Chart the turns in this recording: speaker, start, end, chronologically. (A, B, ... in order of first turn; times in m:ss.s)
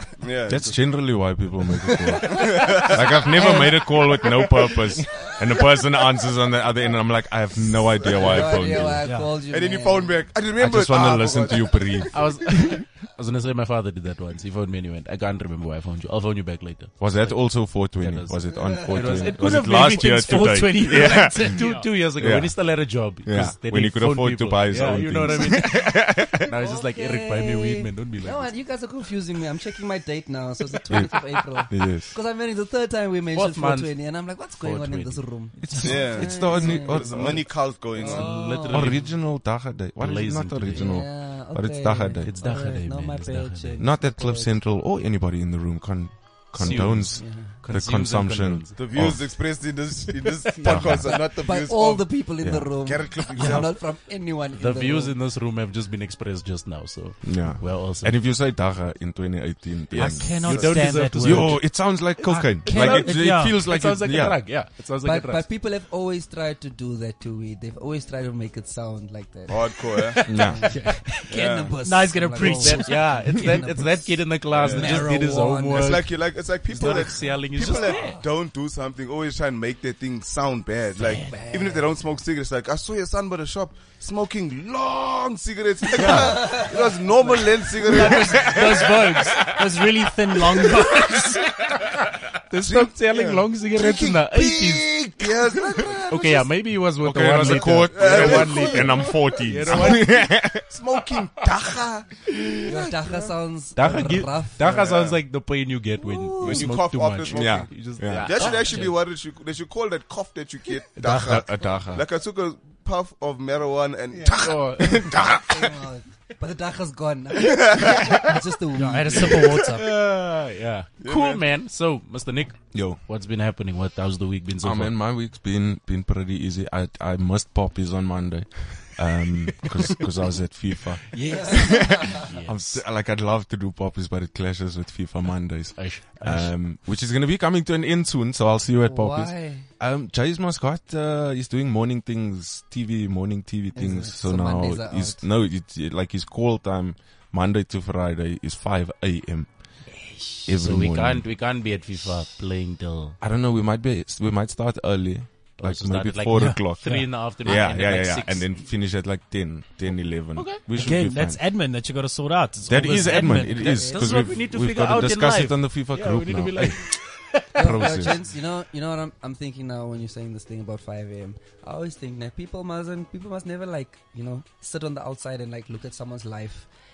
0:00.2-0:00.8 A
0:00.5-0:09.0 B
0:02.3-0:03.2 A
0:02.5-0:04.2 C
0:08.0-0:10.2 C
0:09.0-0:09.4 D
0:09.5-0:12.1 A
0:10.6-0:12.8 B
0:12.1-0:28.5 E
0:17.0-0:21.6 B
0:19.1-0:21.9 D
0:22.2-0:26.5 B
0:26.4-0:39.0 C
0:30.9-0:32.2 B
0:33.3-0:35.2 E
0:35.6-0:37.6 B
0:35.8-0:38.3 A
0:37.9-0:41.0 E
0:38.5-0:42.3 B
0:40.7-0:44.6 C
0:42.2-0:43.8 E
0:43.8-0:49.3 B
0:46.6-0:48.8 E
0:46.6-0:47.5 C
0:48.8-0:52.1 A
0:50.6-0:55.2 C
0:50.6-0:51.2 B
0:52.4-0:53.7 B
0:52.8-0:53.7 A
0:54.6-0:58.2 E
0:57.2-1:04.4 B
0:59.9-1:01.0 A
1:00.0-1:05.5 E
1:00.0-1:03.6 D
1:05.0-1:16.0 C
1:09.5-1:10.2 A
1:10.0-1:13.8 D
1:10.3-1:10.7 B
1:11.3-1:11.8 A
1:12.4-1:18.2 E
1:14.5-1:29.5 A
1:17.6-1:18.2 C
1:21.0-1:21.3 E
1:21.1-1:21.9 C
1:25.9-1:26.6 E
1:26.0-1:27.4 C
1:26.0-1:26.3 D
1:27.8-1:31.6 D
1:32.5-1:34.9 E
1:32.6-1:36.1 A
1:35.6-1:36.4 C
1:36.1-1:40.4 E
1:37.0-1:40.6 B
1:37.5-1:39.0 A
1:38.0-1:39.1 C
1:39.7-1:43.2 A
1:42.6-1:44.8 C
1:43.8-1:49.0 E
1:44.6-1:45.2 A
1:46.0-1:46.7 C
1:46.4-1:55.7 A
1:47.3-1:48.4 B
1:51.0-1:51.4 E
1:51.0-1:52.1 B
1:54.4-1:55.2 E
1:55.2-1:59.6 C
1:57.4-1:58.3 A
1:58.7-1:59.9 D
1:59.5-2:05.0 E
2:01.0-2:01.4 A
2:02.7-2:03.0 B
2:04.6-2:29.9 B
2:11.1-2:12.2 C
2:12.2-2:12.8 E
2:15.8-2:16.5 E
2:18.8-2:19.7 C
2:23.8-2:25.2 C
2:30.4-2:31.2 B
2:30.6-2:33.2 E
2:33.2-2:41.4 B
2:35.6-2:38.6 E
2:36.3-2:37.3 D
2:40.4-2:40.6 E
2:40.7-2:43.9 D
2:42.7-2:46.8 B
2:42.9-2:47.5 E
2:43.1-2:44.2 C
2:47.5-2:48.2 B
2:47.6-2:56.7 C